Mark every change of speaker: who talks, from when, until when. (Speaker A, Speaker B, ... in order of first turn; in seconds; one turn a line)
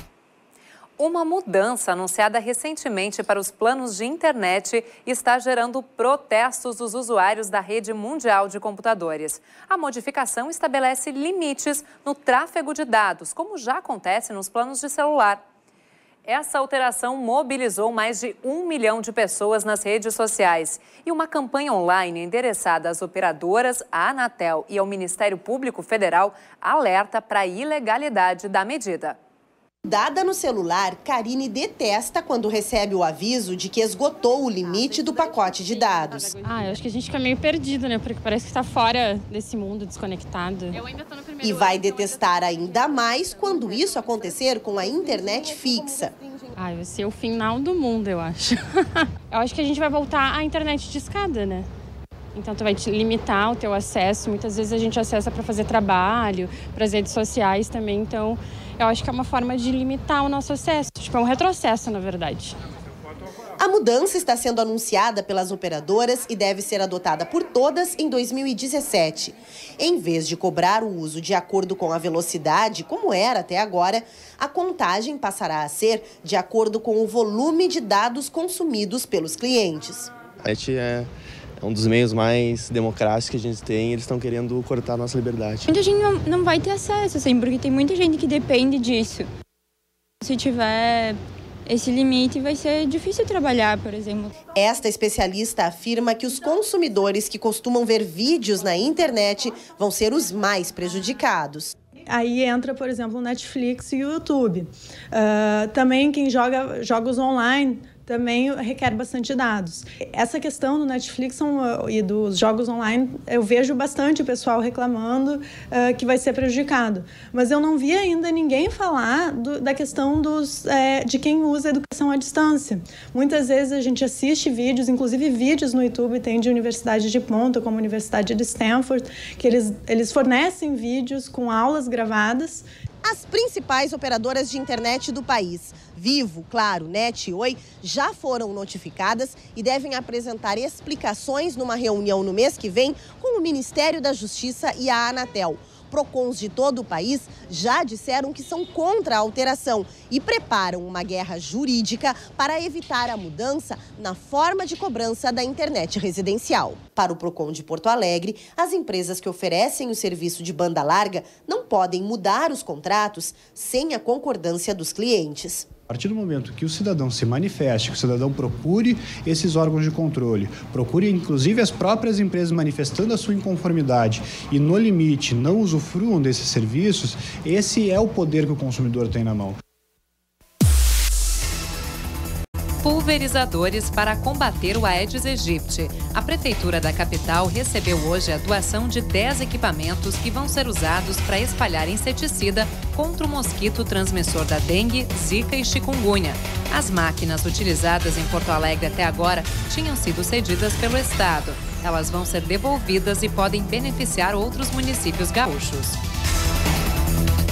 Speaker A: 1.0-15.4
Speaker A: 16.2-29.2
Speaker B: 29.8-36.4
Speaker C: 36.4-40.8
Speaker B: 41.4-46.1
Speaker C: 46.6-51.7
Speaker C: 52.3-62.6
Speaker B: 63.6-80.1
Speaker D: 80.4-81.1
Speaker D: 81.6-85.7
Speaker E: 85.7-89.3
Speaker E: 90.2-94.3
Speaker B: 94.6-101.7
Speaker F: 102.1-132.7
Speaker B: 133.0-165.7
Speaker G: 165.9-179.6
Speaker A: 182.8-206.0